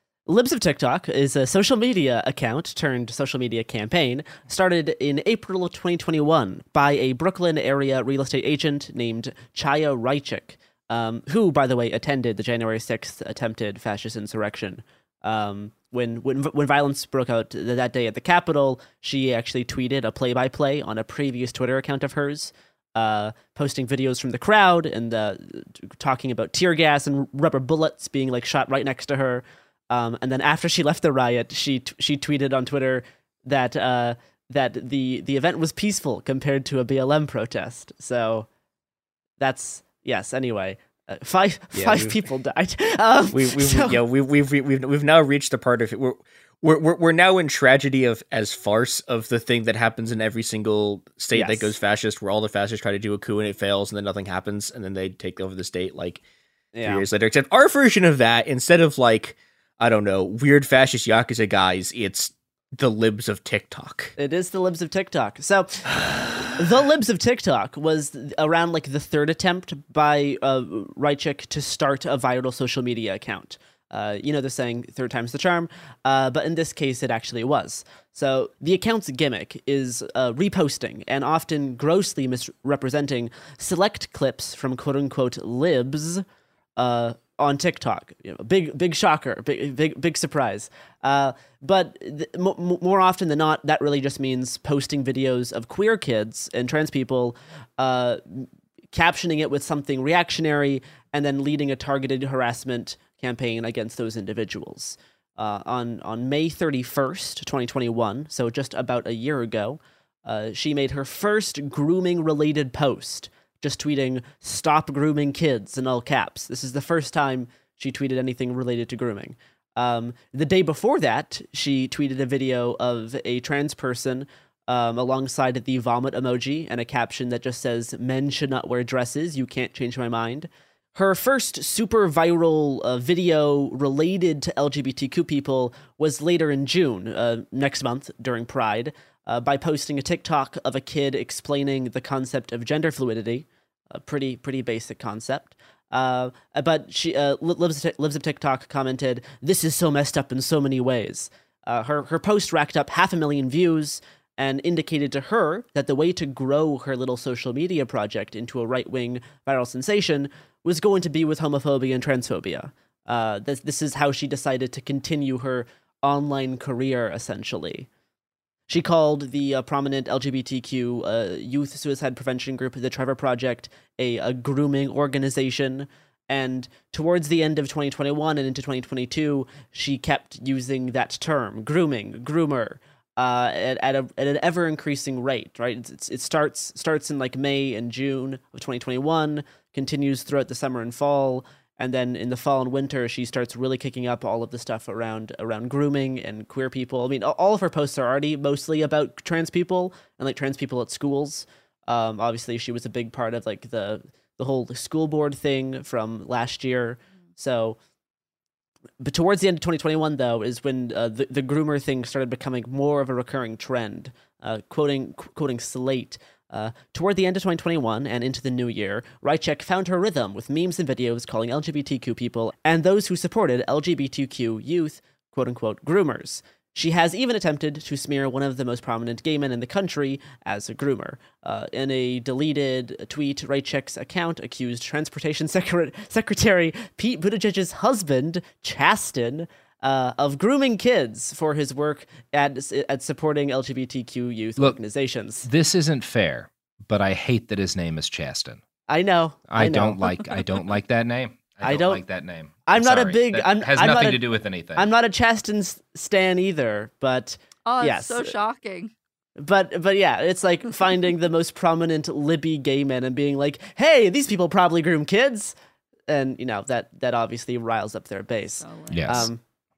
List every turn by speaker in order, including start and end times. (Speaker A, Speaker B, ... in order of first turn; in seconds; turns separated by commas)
Speaker A: 0.3-38.5, Speaker A: 39.4-44.0, Speaker B: 41.7-42.1, Speaker B: 43.3-56.2, Speaker A: 51.3-51.7, Speaker A: 56.7-57.0, Speaker B: 56.8-64.1, Speaker A: 64.2-65.8, Speaker A: 66.6-86.2, Speaker A: 86.8-167.9, Speaker A: 168.7-207.8, Speaker A: 209.0-245.4, Speaker C: 245.4-248.6, Speaker A: 248.9-250.1, Speaker C: 249.5-254.9, Speaker A: 251.6-252.0, Speaker A: 252.7-254.2, Speaker A: 254.8-258.3, Speaker D: 257.6-258.9, Speaker A: 259.4-265.5, Speaker A: 266.1-269.4, Speaker D: 268.6-269.2, Speaker C: 268.9-269.3